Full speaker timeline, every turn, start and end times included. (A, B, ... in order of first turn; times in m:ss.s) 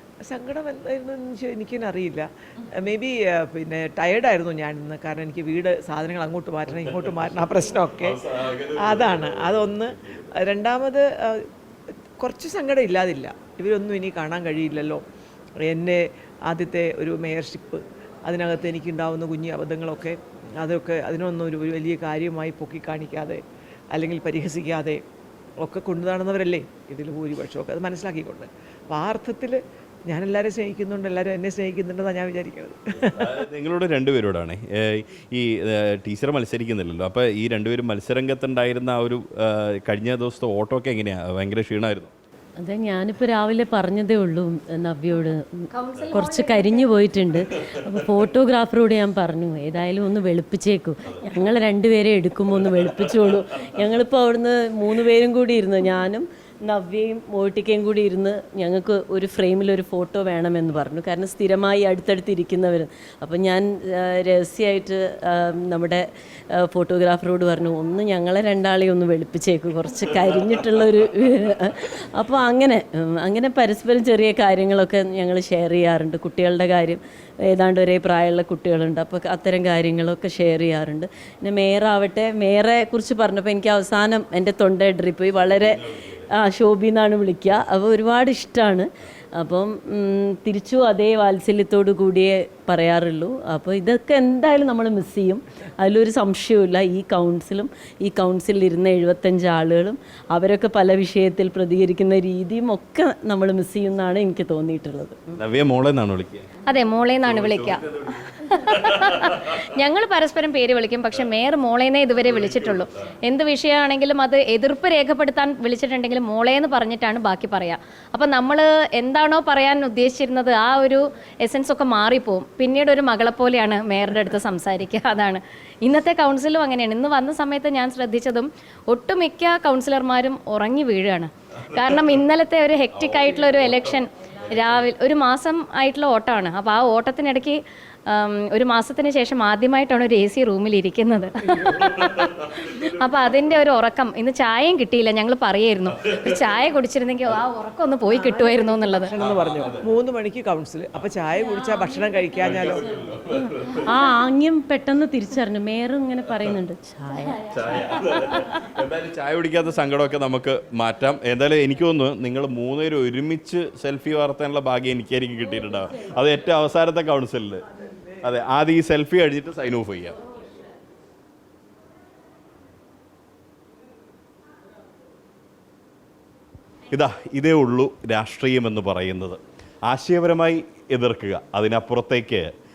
0:00.2-0:11.5 A
0:07.0-0:07.2 B
0:07.9-0:10.3 B
0:12.2-0:15.0 A
0:15.6-0:23.4 A
0:23.9-0:25.0 A
0:25.6-0:33.4 A
0:33.1-0:42.1 B
0:42.7-0:45.2 C
0:45.7-0:47.0 D
0:46.1-1:06.0 C
1:06.6-1:17.0 C
1:17.5-1:25.8 C
1:25.4-1:26.2 B
1:26.3-1:28.9 C
1:29.4-1:45.1 C
1:45.4-1:46.5 B
1:46.6-2:29.1 D
1:47.2-1:49.6 B
1:52.4-1:52.8 B
2:13.0-2:13.9 B
2:14.5-2:14.8 B
2:21.7-2:22.9 B
2:28.1-2:32.9 A
2:29.2-2:29.8 B
2:31.5-2:31.9 C
2:32.4-2:33.8 B
2:33.9-2:37.2 C
2:37.4-2:47.6 B
2:48.2-2:50.2 B
2:56.9-3:02.5 B